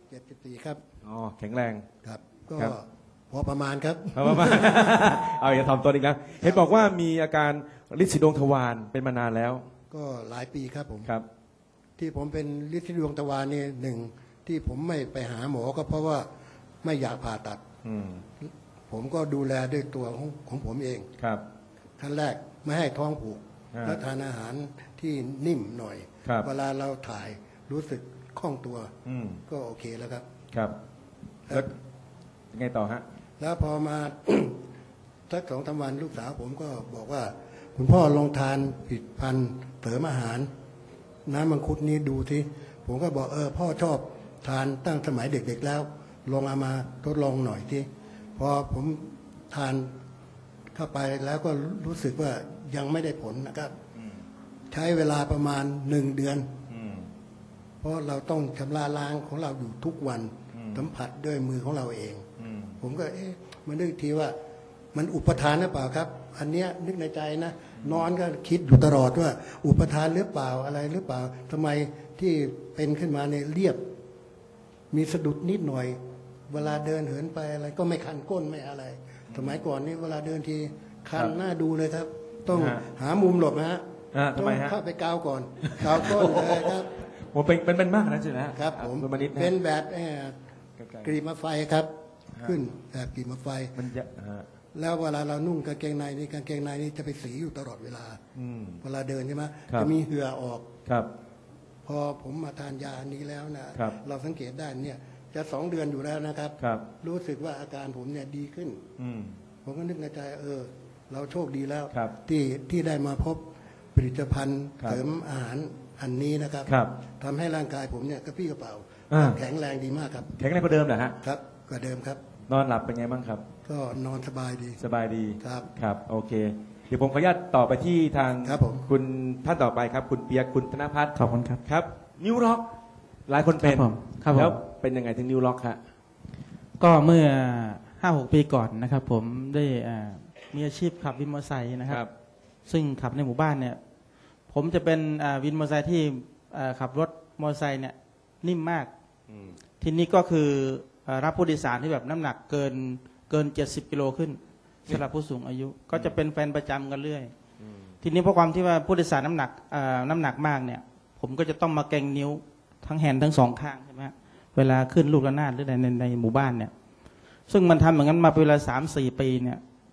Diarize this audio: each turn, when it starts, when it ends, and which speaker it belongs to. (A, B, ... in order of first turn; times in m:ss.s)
0:00.1-0:00.8 A
0:01.0-0:01.9 B
0:02.0-0:04.9 A
0:04.1-0:09.7 B
0:06.4-0:07.0 A
0:09.9-0:11.1 A
0:12.0-0:16.3 A
0:16.8-0:17.6 A
0:17.8-0:18.2 B
0:18.4-0:21.1 A
0:21.2-0:21.4 B
0:22.0-0:28.9 A
0:29.0-0:29.4 B
0:29.5-0:30.2 A
0:30.5-0:30.8 B
0:31.5-0:31.7 A
0:32.5-0:33.0 B
0:33.4-0:34.6 A
0:35.3-0:40.5 A
0:41.2-0:49.9 A
0:50.7-0:53.7 A
0:54.0-0:54.2 B
0:54.7-0:56.5 A
0:56.7-0:57.1 B
0:57.8-1:02.2 A
1:00.5-1:00.9 B
1:02.4-1:02.8 B
1:02.8-1:04.4 A
1:04.9-1:13.8 A
1:14.9-1:27.0 A
1:19.3-1:19.6 B
1:22.5-1:22.8 B
1:24.1-1:24.7 B
1:25.6-1:29.5 B
1:28.5-1:30.4 A
1:30.8-1:31.1 B
1:31.0-1:31.9 A
1:32.4-1:33.8 A
1:33.8-1:34.5 B
1:34.7-1:38.2 A
1:38.3-1:38.8 B
1:38.8-1:40.7 A
1:40.8-1:41.1 B
1:41.8-1:48.8 A
1:46.6-1:46.9 B
1:49.0-1:49.4 B
1:49.6-2:00.3 A
1:56.7-1:56.9 B
1:59.1-1:59.4 B
2:00.4-2:01.2 B
2:01.2-2:02.2 A
2:02.5-2:03.4 B
2:03.6-2:04.8 A
2:04.8-2:12.7 B
2:05.4-2:05.7 A
2:08.4-2:08.9 A
2:11.1-2:11.6 C
2:13.3-2:15.8 B
2:13.6-2:14.6 C
2:16.8-2:22.0 C
2:22.6-2:23.8 C
2:24.5-2:28.9 C
2:29.3-2:29.6 B
2:29.8-2:37.3 C
2:37.6-2:37.9 B
2:38.0-2:46.7 C
2:47.5-2:49.6 C